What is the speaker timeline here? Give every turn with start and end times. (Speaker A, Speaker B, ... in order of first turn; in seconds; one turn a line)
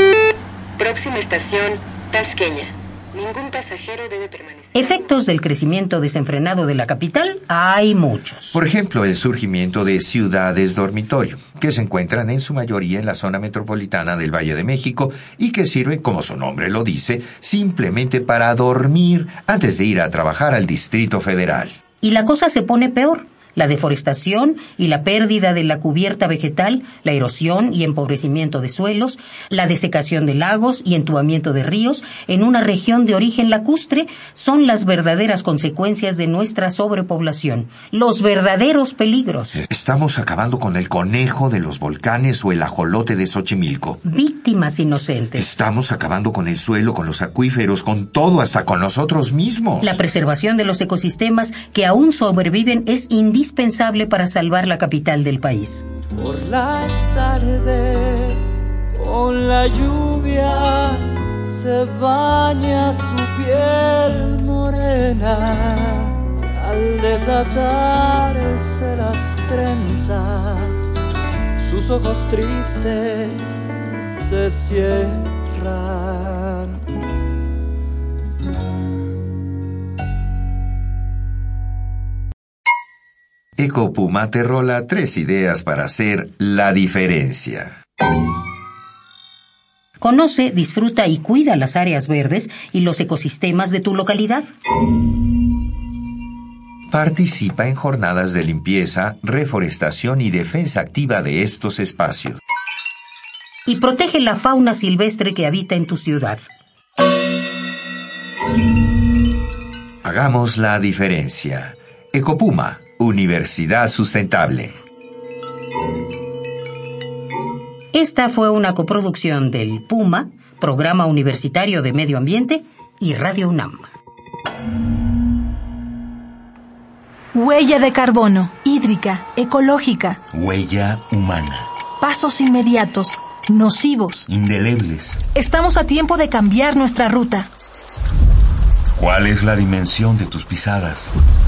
Speaker A: 0.8-5.0
Speaker B: 4.7-8.6
Speaker C: 8.5-21.7
Speaker B: 22.0-39.6
Speaker C: 39.5-44.0
Speaker B: 44.0-45.5
Speaker C: 45.3-50.0
Speaker B: 49.8-55.8
Speaker D: 56.1-70.9
Speaker D: 71.6-73.5
Speaker D: 74.1-76.8
Speaker C: 83.6-87.7
Speaker B: 90.0-94.4
Speaker C: 96.9-102.4
Speaker B: 103.7-106.4
Speaker C: 110.0-114.7
Speaker B: 117.9-123.9
Speaker E: 127.3-130.2
Speaker F: 130.3-131.7
Speaker E: 132.0-134.3
Speaker F: 134.3-135.2
Speaker E: 135.3-137.5
Speaker F: 138.9-141.1